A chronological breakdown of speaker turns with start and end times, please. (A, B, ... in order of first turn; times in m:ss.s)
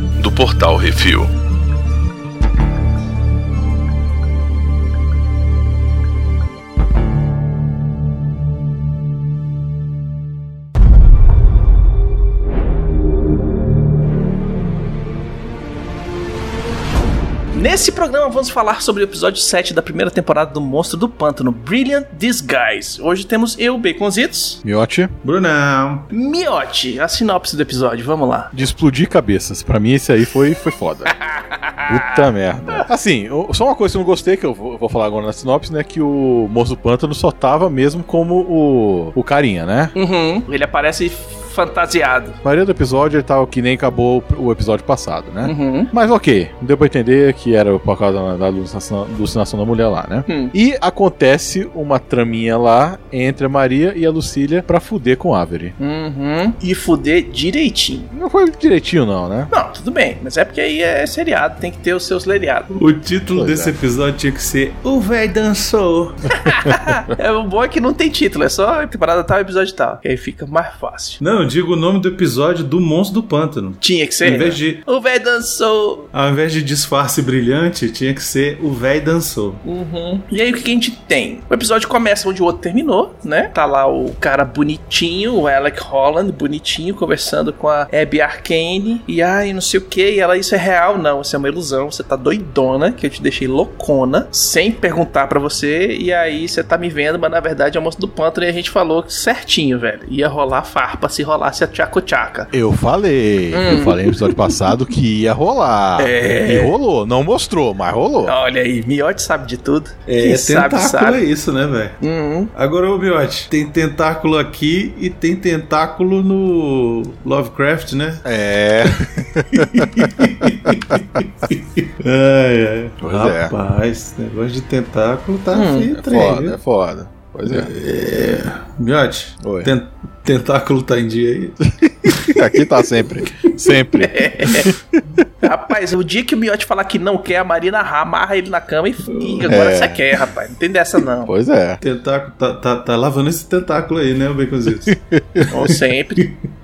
0:00.2-0:01.3 A
0:17.5-0:24.6 B
0:24.6-0:25.1 A
0:25.2-0:26.1 C
0:26.1-0:28.5 B
0:28.5-0:31.1 A
0:31.1-0:32.8 B
0:31.9-0:39.9 A
0:39.9-0:42.4 B
0:42.4-0:55.7 A
0:45.4-0:45.9 B
0:50.3-0:50.5 B
0:55.8-0:58.1 B
0:58.1-0:59.5 A
0:59.5-1:02.7 B
1:02.7-1:06.3 C
1:03.3-1:03.7 A
1:06.3-1:11.2 B
1:11.2-1:14.8 C
1:13.8-1:16.1 B
1:16.1-1:19.6 C
1:19.6-1:42.5 B
1:42.5-1:48.3 A
1:43.5-1:44.5 B
1:46.0-1:46.8 B
1:48.2-1:51.2 B
1:50.1-1:52.0 C
1:52.0-1:52.5 B
1:52.5-1:58.2 C
1:58.2-2:01.0 A
1:58.8-2:06.6 C
2:03.0-2:03.5 A
2:05.5-2:05.9 B
2:06.0-2:07.7 A
2:07.4-2:12.7 C
2:09.4-2:09.7 A
2:12.1-2:15.2 A
2:13.2-2:13.8 C
2:14.0-2:14.7 B
2:15.4-2:21.3 B
2:19.1-2:19.5 C
2:19.5-2:20.0 A
2:21.3-2:21.8 A
2:21.8-2:26.3 C
2:24.8-2:25.5 A
2:25.5-2:26.2 B